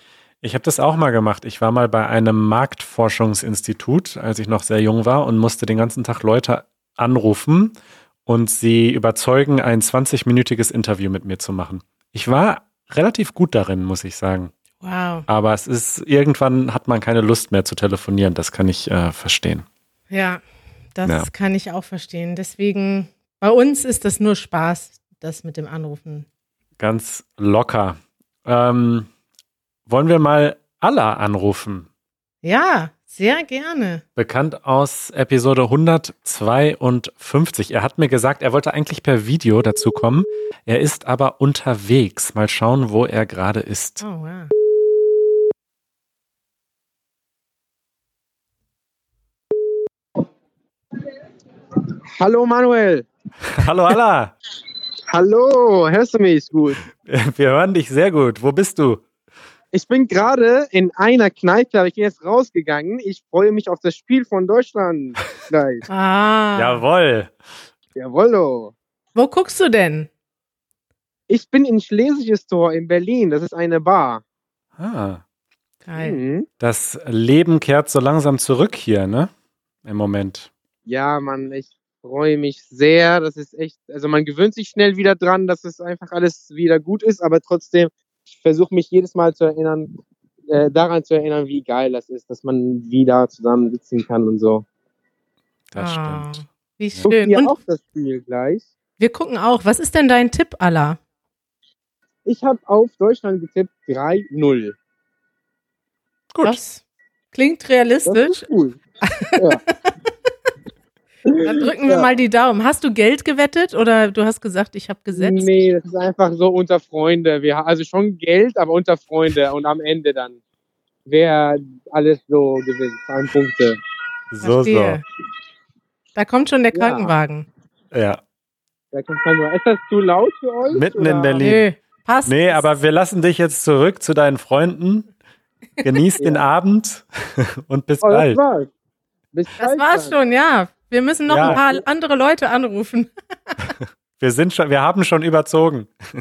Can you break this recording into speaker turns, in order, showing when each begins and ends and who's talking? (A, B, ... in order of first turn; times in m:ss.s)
0:00.4-0:07.8 A
0:08.3-0:14.5 A
0:14.8-0:15.3 B
0:15.3-0:19.6 A
0:20.1-0:20.4 B
0:21.0-0:26.3 B
0:26.8-0:29.1 A
0:29.9-0:31.9 A
0:32.4-0:34.0 B
0:34.2-0:44.0 A
0:44.0-0:44.5 B
0:52.2-0:53.1 C
0:53.5-0:54.3 A
0:55.1-0:56.8 C
0:57.0-0:59.0 A
0:59.7-1:05.9 C
1:05.9-1:06.8 B
1:06.6-1:07.3 A
1:08.0-1:08.7 C
1:09.2-1:10.1 B
1:11.3-1:14.2 C
1:14.8-1:15.2 A
1:15.9-1:16.2 B
1:16.0-1:16.5 C
1:16.6-1:19.3 A
1:19.8-1:20.5 A
1:20.9-1:29.9 C
1:30.5-1:34.7 C
1:35.7-1:36.4 A
1:35.8-1:37.5 B
1:37.0-1:38.7 C
1:39.0-1:41.0 B
1:42.3-1:44.8 C
1:46.3-1:46.6 A
1:46.4-1:46.8 B
1:47.3-1:48.5 B
1:48.1-1:48.8 C
1:49.0-1:49.4 B
1:51.3-1:52.1 C
1:51.4-1:55.6 B
1:55.1-2:00.4 C
2:01.1-2:03.8 C
2:04.3-2:05.0 A
2:04.4-2:05.0 B
2:06.2-2:07.5 B
2:06.7-2:07.1 C
2:07.9-2:08.2 A
2:08.9-2:11.4 C
2:10.7-2:11.6 A
2:11.4-2:12.7 B
2:12.3-2:15.1 A
2:15.8-2:18.4 A
2:16.2-2:16.4 C
2:18.0-2:18.7 C
2:19.3-2:20.2 C
2:19.6-2:23.6 B
2:21.3-2:21.6 A
2:21.4-2:21.8 C
2:24.2-2:25.9 A